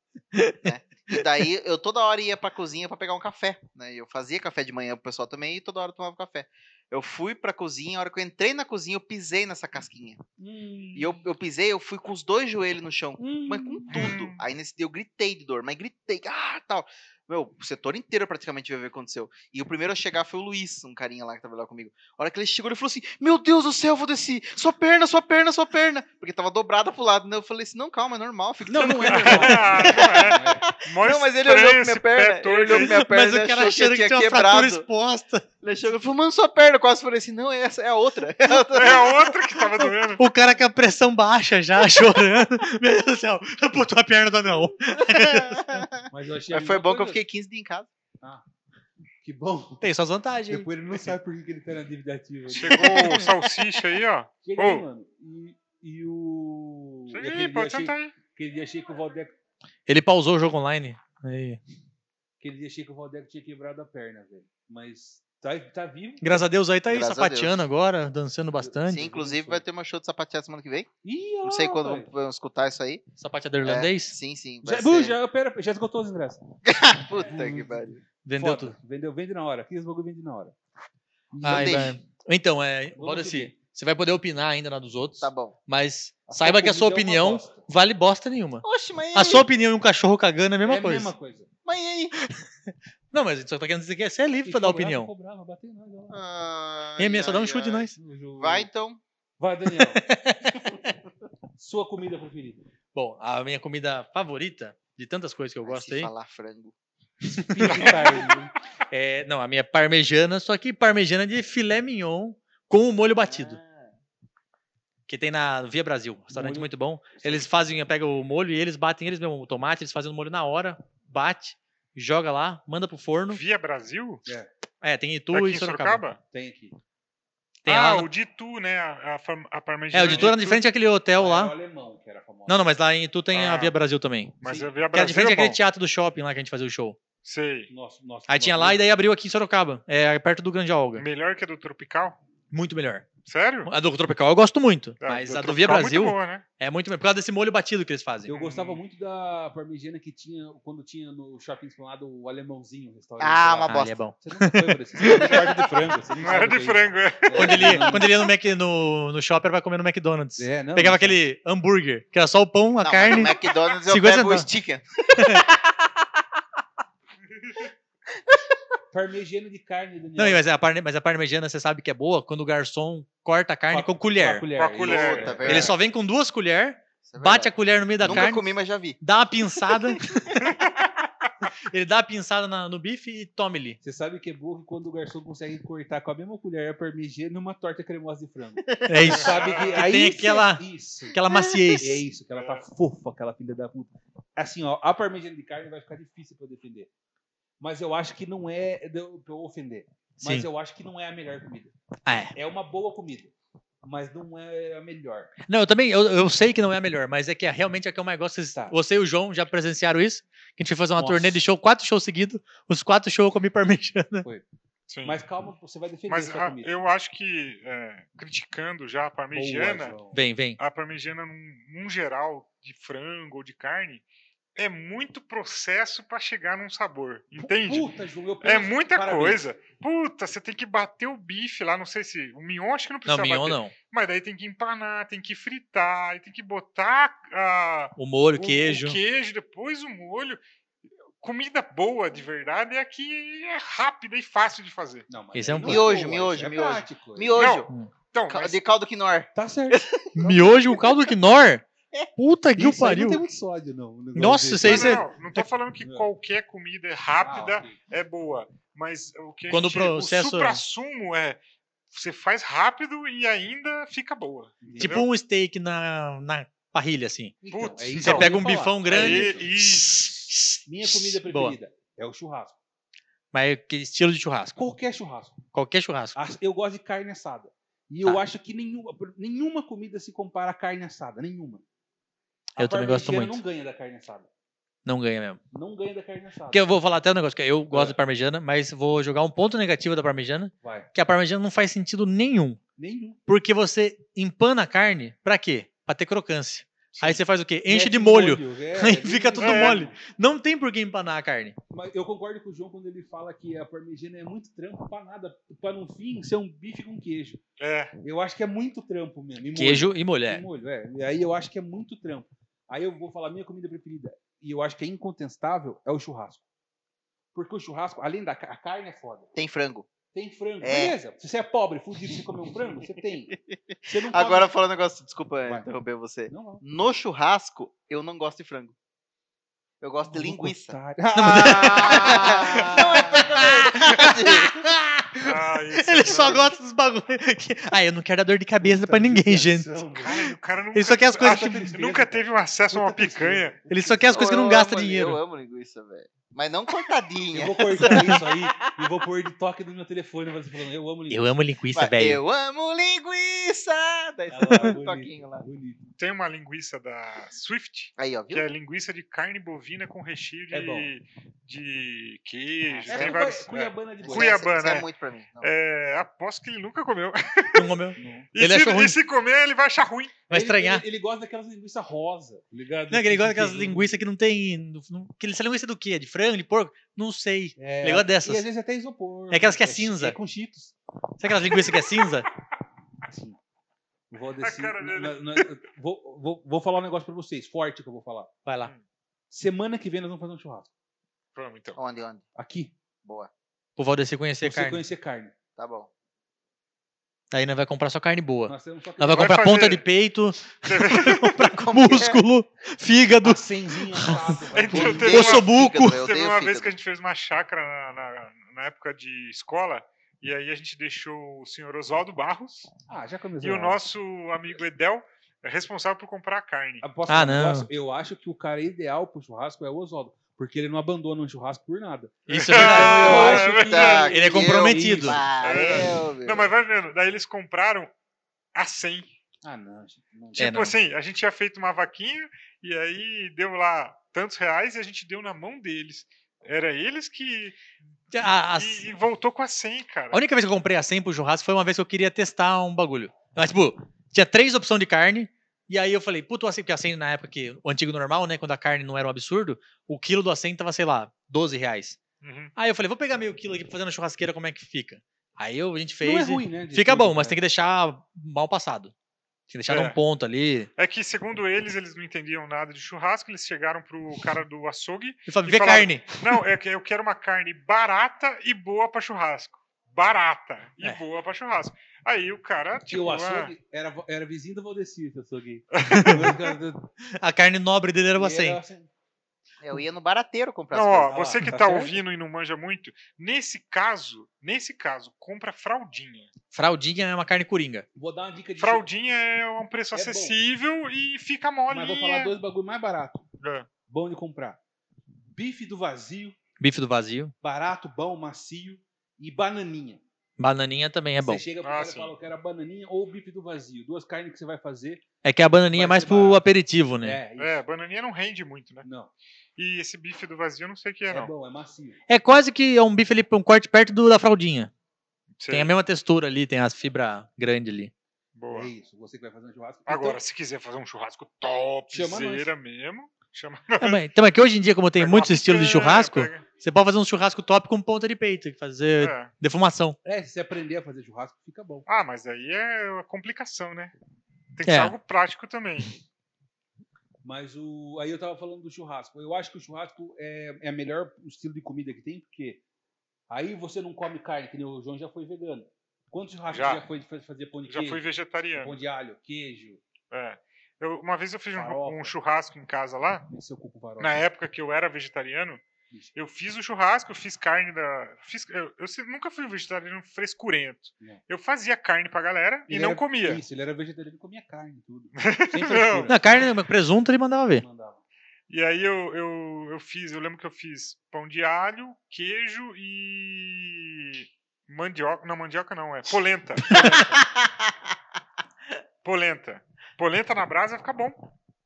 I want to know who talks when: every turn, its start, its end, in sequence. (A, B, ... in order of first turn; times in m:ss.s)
0:00.6-0:10.2 A
0:10.4-0:11.2 B
0:11.0-0:34.8 A
0:13.2-0:14.1 B
0:13.9-0:14.4 C
0:28.7-0:30.6 B
0:29.0-0:33.0 C
0:32.7-0:35.5 D
0:35.6-0:39.4 A
0:38.7-0:40.3 C
0:39.8-0:45.9 D
0:45.0-0:47.9 A
0:46.1-0:47.2 B
0:49.2-0:49.8 B
0:49.8-0:50.7 D
0:50.5-0:53.3 B
0:52.5-0:54.8 C
0:54.4-0:59.3 B
0:57.1-0:58.1 C
0:59.9-1:01.6 D
1:02.4-1:06.4 B
1:06.2-1:09.1 D
1:06.9-1:07.7 A
1:08.6-1:09.6 B
1:08.9-1:10.9 A
1:11.0-1:12.1 B
1:11.4-1:13.0 A
1:13.2-1:14.2 D
1:13.6-1:15.2 A
1:14.6-1:16.4 B
1:16.6-1:18.0 A
1:17.2-1:20.6 B
1:18.2-1:18.7 D
1:21.3-1:22.0 B
1:21.4-1:31.1 D
1:21.5-1:22.0 A
1:23.0-1:23.6 B
1:25.2-1:25.6 A
1:26.3-1:27.6 B
1:28.6-1:29.5 A
1:30.6-1:31.5 B
1:31.6-1:32.2 A
1:32.2-1:35.1 D
1:34.4-1:36.2 B
1:36.1-1:39.0 A
1:37.0-1:38.0 D
1:38.0-1:38.7 B
1:39.4-1:40.0 B
1:39.8-1:40.6 D
1:41.6-1:42.6 B
1:42.9-1:46.1 D
1:45.6-1:46.7 A
1:47.3-1:48.1 D
1:47.4-1:48.5 B
1:48.9-1:53.6 D
1:53.2-1:53.9 A
1:55.1-2:03.4 D
1:56.3-1:57.5 B
2:03.3-2:04.2 C
2:04.8-2:06.0 D
2:05.3-2:06.2 C
2:06.3-2:06.8 B
2:07.6-2:08.1 D
2:07.7-2:10.6 C
2:09.9-2:11.5 D
2:10.0-2:10.4 B
2:11.2-2:12.6 B
2:12.5-2:14.4 D
2:13.3-2:13.8 C
2:14.4-2:15.6 C
2:14.4-2:14.7 B
2:14.9-2:17.0 D
2:17.2-2:17.7 C
2:17.7-2:18.9 B
2:18.3-2:21.0 D
2:21.0-2:22.2 C
2:22.5-2:23.1 D
2:23.3-2:23.7 C
2:23.6-2:28.3 D
2:25.0-2:26.4 C
2:28.3-2:38.1 B
2:28.3-2:28.8 C
2:33.2-2:34.0 A
2:33.7-2:35.3 D
2:35.0-2:35.6 C
2:36.2-2:38.0 C
2:37.3-2:44.5 D
2:40.4-2:41.2 B
2:42.8-2:46.0 A
2:45.2-2:45.4 D
2:48.3-2:48.6 A
2:48.9-2:50.4 B
2:50.2-2:54.5 D
2:53.7-2:55.7 B
2:54.6-2:55.6 C
2:54.8-2:55.8 A
2:55.4-2:58.4 D
2:57.0-2:59.0 A
2:59.0-3:00.4 D
2:59.6-3:00.2 A
3:00.4-3:00.8 C
3:01.7-3:03.8 D
3:03.8-3:11.2 B
3:08.6-3:09.3 A
3:08.9-3:12.0 D
3:09.1-3:09.9 C
3:11.3-3:11.8 A
3:11.8-3:16.9 B
3:12.4-3:12.6 C
3:17.6-3:21.7 B
3:20.2-3:20.5 D
3:22.1-3:22.3 D
3:22.4-3:23.3 B
3:23.8-3:25.3 B
3:25.5-3:34.3 D
3:31.0-3:31.4 B
3:34.9-3:35.2 C
3:35.0-3:36.7 B
3:36.1-3:40.0 C
3:39.3-3:40.2 B
3:40.1-3:40.6 D
3:40.6-3:44.0 C
3:44.6-3:47.9 C
3:47.4-3:49.4 B
3:48.4-4:00.4 C
3:53.1-3:53.7 D
3:58.0-3:59.0 D
4:01.2-4:05.1 C
4:05.1-4:07.5 B
4:05.3-4:05.9 D
4:05.6-4:07.7 A
4:07.4-4:08.6 C
4:08.3-4:11.1 A
4:09.4-4:10.6 B
4:10.2-4:11.6 D
4:12.2-4:13.2 D
4:12.6-4:15.0 B
4:14.2-4:15.5 D
4:14.6-4:21.4 C
4:15.8-4:16.1 B
4:17.2-4:17.8 B
4:19.5-4:20.6 D
4:21.9-4:25.1 C
4:24.6-4:25.0 B
4:24.8-4:27.4 D
4:27.4-4:29.5 B
4:27.5-4:28.3 C
4:28.0-4:31.6 D
4:28.9-4:30.2 C
4:30.6-4:32.6 B
4:33.3-4:34.6 D
4:34.6-4:35.4 B
4:35.5-4:36.2 D
4:36.2-4:41.6 B
4:42.6-4:44.3 B
4:42.6-4:43.4 D
4:44.8-4:45.4 D
4:45.5-4:46.7 B
4:46.5-4:52.6 D
4:47.7-4:48.0 B
4:50.6-4:50.9 B
4:52.8-4:53.2 B
4:53.3-5:01.6 D
4:57.7-5:00.0 B
4:59.4-4:59.8 C
5:01.7-5:07.4 B
5:07.6-5:07.9 C
5:08.0-5:16.4 B
5:09.6-5:10.4 D
5:17.3-5:19.3 B
5:19.4-5:19.9 A
5:20.1-5:24.5 B
5:20.6-5:21.0 A
5:23.3-5:28.8 A
5:26.3-5:26.6 B
5:29.8-5:30.8 A
5:30.1-5:33.5 B
5:31.2-5:39.7 D
5:31.3-5:34.7 A
5:35.2-5:36.5 C
5:36.1-5:36.4 A
5:38.6-5:40.3 B
5:40.0-5:43.6 C
5:40.8-5:41.7 D
5:41.2-5:44.6 B
5:43.7-5:45.2 D
5:44.1-5:48.5 A
5:47.3-5:51.3 B
5:47.9-5:48.1 D
5:51.1-5:52.2 D
5:51.7-5:55.5 A
5:54.3-5:55.9 B
5:56.0-6:04.9 C
5:58.0-5:58.5 A
6:00.5-6:00.9 B
6:02.7-6:03.3 A
6:02.9-6:04.4 B
6:04.0-6:05.5 A
6:05.4-6:07.7 C
6:07.6-6:09.0 D
6:08.0-6:08.3 B
6:08.4-6:10.2 C
6:10.3-6:10.8 D
6:10.3-6:14.0 B
6:12.9-6:18.4 D
6:17.6-6:20.8 B
6:19.3-6:20.2 D
6:21.2-6:22.3 D
6:23.0-6:23.4 B
6:24.1-6:28.3 B
6:24.4-6:25.5 C
6:28.5-6:28.7 D
6:29.3-6:30.7 B
6:31.4-6:31.8 C
6:31.8-6:32.2 A
6:32.4-6:32.7 B
6:33.0-6:33.3 A
6:33.8-6:34.8 D
6:34.4-6:35.3 B
6:35.6-6:35.9 A
6:37.3-6:46.0 D
6:38.5-6:39.4 B
6:39.1-6:39.8 C
6:40.6-6:41.5 C
6:41.5-6:42.2 A
6:43.2-6:45.2 B
6:44.5-6:52.7 C
6:44.7-6:46.7 A
6:52.9-6:53.8 B
6:53.4-6:56.9 C
6:56.8-7:05.2 B
6:57.1-6:57.7 D
7:02.3-7:03.4 D
7:02.3-7:04.1 C
7:02.7-7:06.5 A
7:04.0-7:05.2 D
7:05.4-7:07.9 C
7:08.6-7:09.1 C
7:09.4-7:10.5 B
7:10.4-7:17.6 C
7:10.4-7:10.8 D
7:18.1-7:18.9 D
7:18.2-7:20.2 C
7:20.1-7:32.0 D
7:32.2-7:32.5 C
7:32.6-7:38.9 D
7:36.0-7:37.4 B
7:39.5-7:40.7 D
7:39.7-7:40.0 C
7:40.8-7:53.5 C
7:45.3-7:46.2 D
7:52.9-7:56.9 B
7:55.7-7:56.4 C
7:55.9-7:56.3 D
7:57.2-7:58.6 D
7:58.2-7:58.9 B
7:59.6-8:01.3 A
8:00.7-8:06.3 C
8:01.1-8:02.0 B
8:06.5-8:07.9 D
8:08.0-8:08.8 B
8:08.6-8:12.3 C
8:09.9-8:10.4 B
8:11.7-8:13.2 B
8:13.4-8:13.7 C
8:13.9-8:14.6 B
8:15.3-8:16.4 B
8:16.6-8:17.3 D
8:17.4-8:20.0 B
8:20.4-8:21.4 D
8:21.2-8:25.0 B
8:21.6-8:22.1 C
8:25.2-8:27.2 D
8:25.7-8:26.4 B
8:27.0-8:27.6 B
8:27.4-8:28.9 C
8:28.8-8:29.1 B
8:29.6-8:31.3 C
8:31.1-8:32.0 B
8:32.1-8:34.7 D
8:35.4-8:35.7 C
8:35.5-8:37.9 D
8:38.4-8:38.7 C
8:38.5-8:40.2 B
8:39.9-8:44.0 C
8:41.9-8:42.5 B
8:43.8-8:50.0 D
8:45.0-8:46.4 C
8:49.0-8:49.3 C
8:50.0-8:51.9 B
8:51.9-8:53.9 C
8:54.6-8:56.0 C
8:54.6-8:54.9 D
8:57.2-9:02.6 B
9:03.3-9:08.0 B
9:06.5-9:06.8 C
9:07.7-9:08.8 C
9:08.6-9:09.8 B
9:10.1-9:13.3 C
9:11.6-9:12.1 B
9:13.3-9:14.2 B
9:14.0-9:15.6 C
9:16.2-9:23.4 C
9:22.7-9:26.5 B
9:25.2-9:26.4 C
9:26.1-9:27.6 D
9:27.6-9:28.0 B
9:28.5-9:37.1 C
9:36.7-9:37.0 D
9:36.7-9:37.9 A
9:39.0-9:41.2 C